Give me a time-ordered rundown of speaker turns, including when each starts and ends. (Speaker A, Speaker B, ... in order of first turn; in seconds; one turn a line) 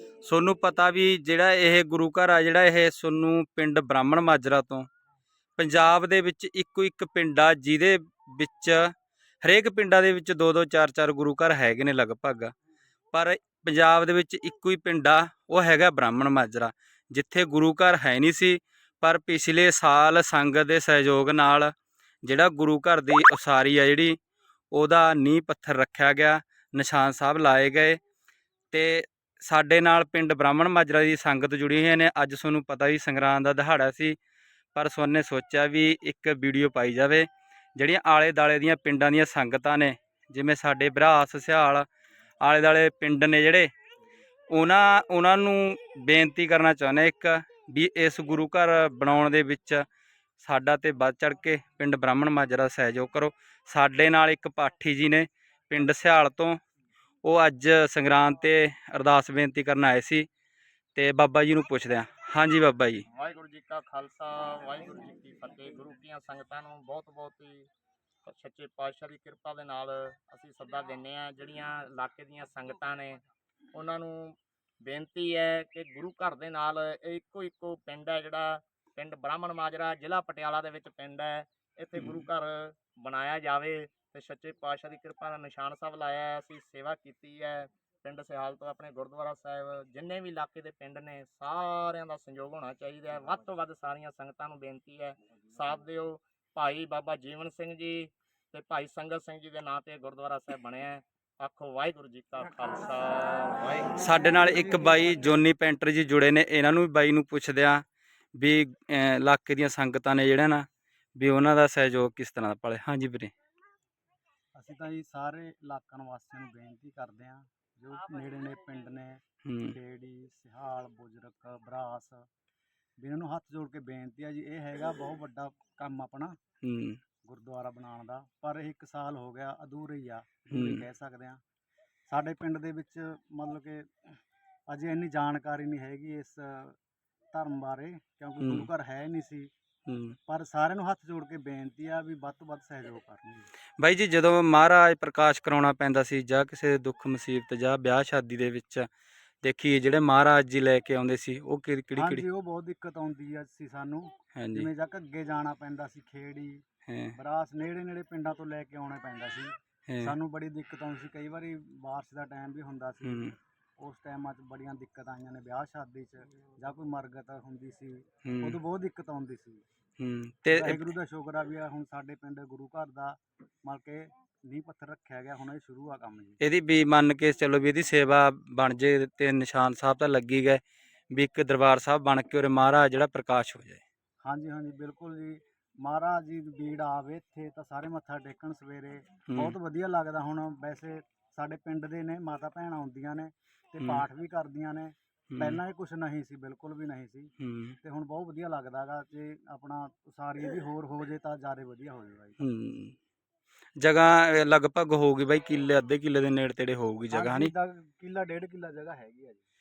Speaker A: 0.2-4.9
Speaker A: 5.6-8.9
Speaker A: 9.4-12.5
Speaker A: 13.1-21.7
Speaker A: 22.2-24.2
Speaker A: 24.7-28.0
Speaker A: 28.7-34.2
Speaker A: 34.7-41.9
Speaker A: 42.4-43.7
Speaker A: 44.5-49.8
Speaker A: 50.4-56.6
Speaker A: 57.2-60.3
Speaker A: 61.0-63.0
Speaker B: 63.1-67.7
Speaker B: 68.2-73.2
Speaker B: 73.7-104.0
Speaker A: 82.0-82.2
Speaker A: 104.0-107.8
Speaker A: 108.4-110.7
Speaker A: 111.2-113.3
Speaker C: 114.5-122.2
Speaker B: 118.1-118.8
Speaker A: 119.4-119.8
Speaker C: 123.0-126.3
Speaker A: 126.6-127.0
Speaker C: 127.3-131.4
Speaker A: 130.5-130.8
Speaker C: 132.1-134.2
Speaker C: 134.7-136.8
Speaker C: 137.3-139.5
Speaker A: 138.4-138.7
Speaker A: 139.9-140.2
Speaker C: 140.3-143.5
Speaker A: 143.8-148.9
Speaker A: 149.4-152.2
Speaker C: 151.9-156.6
Speaker A: 154.3-154.7
Speaker A: 156.9-157.1
Speaker C: 157.1-169.6
Speaker A: 159.9-160.1
Speaker A: 163.0-163.3
Speaker A: 168.2-168.6
Speaker A: 170.0-170.8
Speaker C: 170.5-176.4
Speaker A: 176.4-183.8
Speaker C: 184.2-202.4
Speaker A: 189.3-189.5
Speaker A: 195.3-195.6
Speaker A: 197.4-197.8
Speaker A: 202.4-202.9
Speaker A: 203.8-207.5
Speaker C: 207.1-209.4